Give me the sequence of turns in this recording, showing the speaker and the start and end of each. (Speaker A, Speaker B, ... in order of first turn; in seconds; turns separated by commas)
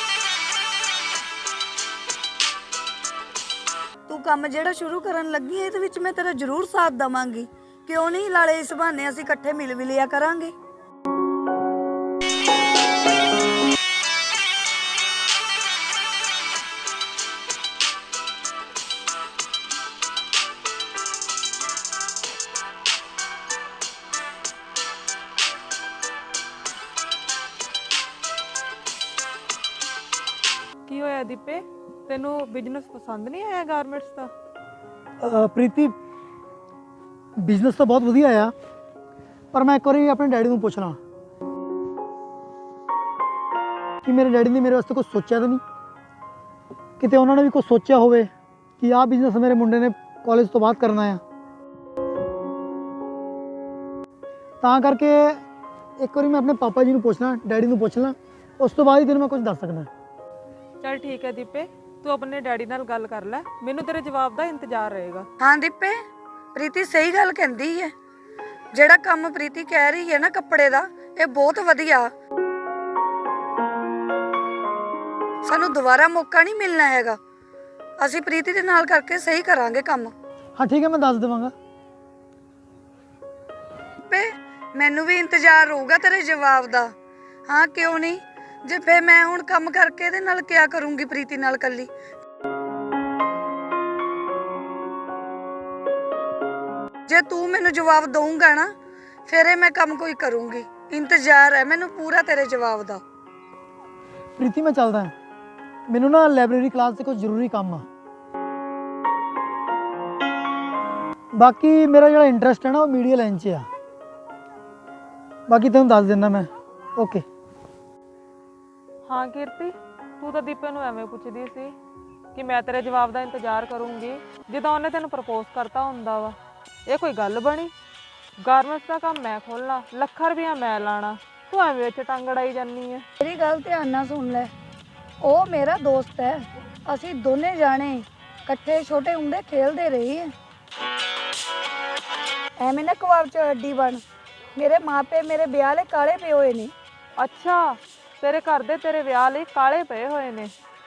Speaker A: 4.1-10.5, Speaker B: 30.9-34.3, Speaker C: 35.2-35.9, Speaker C: 37.4-38.5, Speaker C: 39.5-41.0, Speaker C: 44.0-45.6, Speaker C: 47.0-48.3, Speaker C: 48.8-51.2, Speaker C: 54.6-55.4, Speaker C: 56.0-59.9, Speaker B: 60.8-65.3, Speaker A: 65.4-66.0, Speaker A: 66.5-67.9, Speaker A: 68.7-72.1, Speaker A: 75.5-77.2, Speaker A: 78.0-80.1, Speaker C: 80.6-81.5, Speaker A: 84.1-86.9, Speaker A: 87.5-91.9, Speaker A: 97.1-98.7, Speaker A: 99.3-103.0, Speaker C: 104.4-105.1, Speaker C: 105.9-107.8, Speaker C: 111.4-113.7, Speaker C: 115.5-117.2, Speaker B: 119.1-121.7, Speaker B: 122.3-126.3, Speaker B: 126.9-127.7, Speaker B: 128.4-133.0, Speaker A: 133.2-134.5, Speaker A: 135.2-140.3, Speaker A: 142.6-144.0, Speaker A: 144.6-146.7, Speaker B: 147.2-150.5